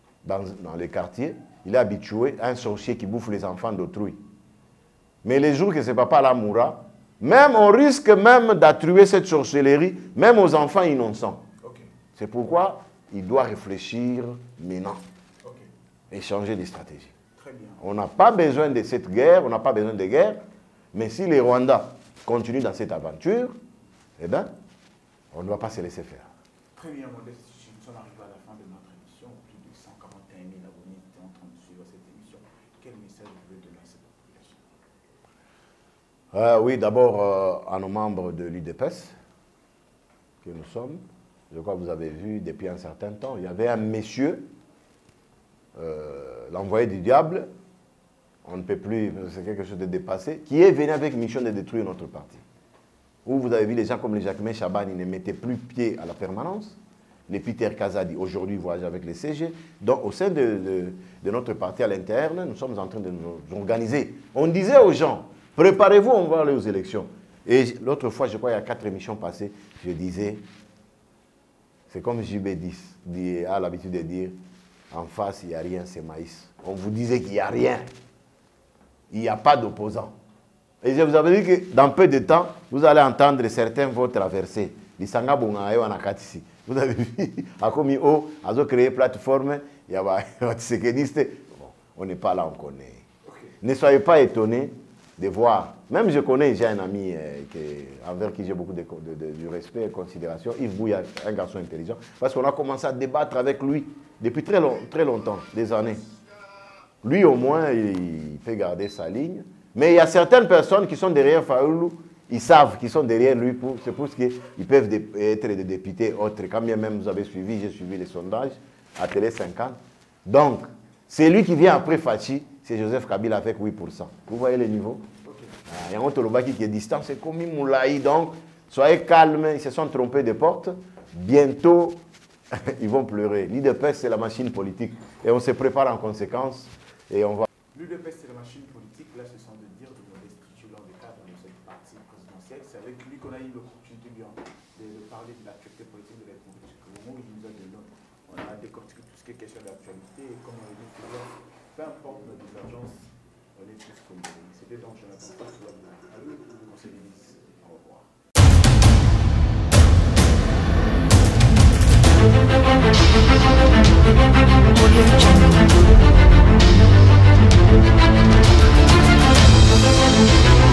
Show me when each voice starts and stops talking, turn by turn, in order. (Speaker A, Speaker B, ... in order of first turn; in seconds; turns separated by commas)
Speaker A: 0.2-4.2, Speaker A: 5.2-11.4, Speaker B: 11.6-11.9, Speaker A: 12.2-15.0, Speaker B: 15.4-15.7, Speaker A: 16.1-17.1, Speaker B: 17.4-17.9, Speaker A: 17.8-23.5, Speaker A: 24.2-24.5, Speaker A: 25.3-26.3, Speaker B: 26.7-34.6, Speaker A: 36.3-39.1, Speaker A: 40.4-44.5, Speaker A: 45.7-47.5, Speaker A: 48.4-52.4, Speaker A: 53.2-70.4, Speaker A: 71.9-74.4, Speaker A: 74.9-77.9, Speaker A: 79.1-80.2, Speaker A: 80.8-93.0, Speaker B: 93.2-93.5, Speaker A: 93.6-106.1, Speaker A: 107.0-125.0, Speaker B: 125.2-125.6, Speaker A: 125.7-137.5, Speaker B: 137.7-158.1, Speaker B: 164.7-165.7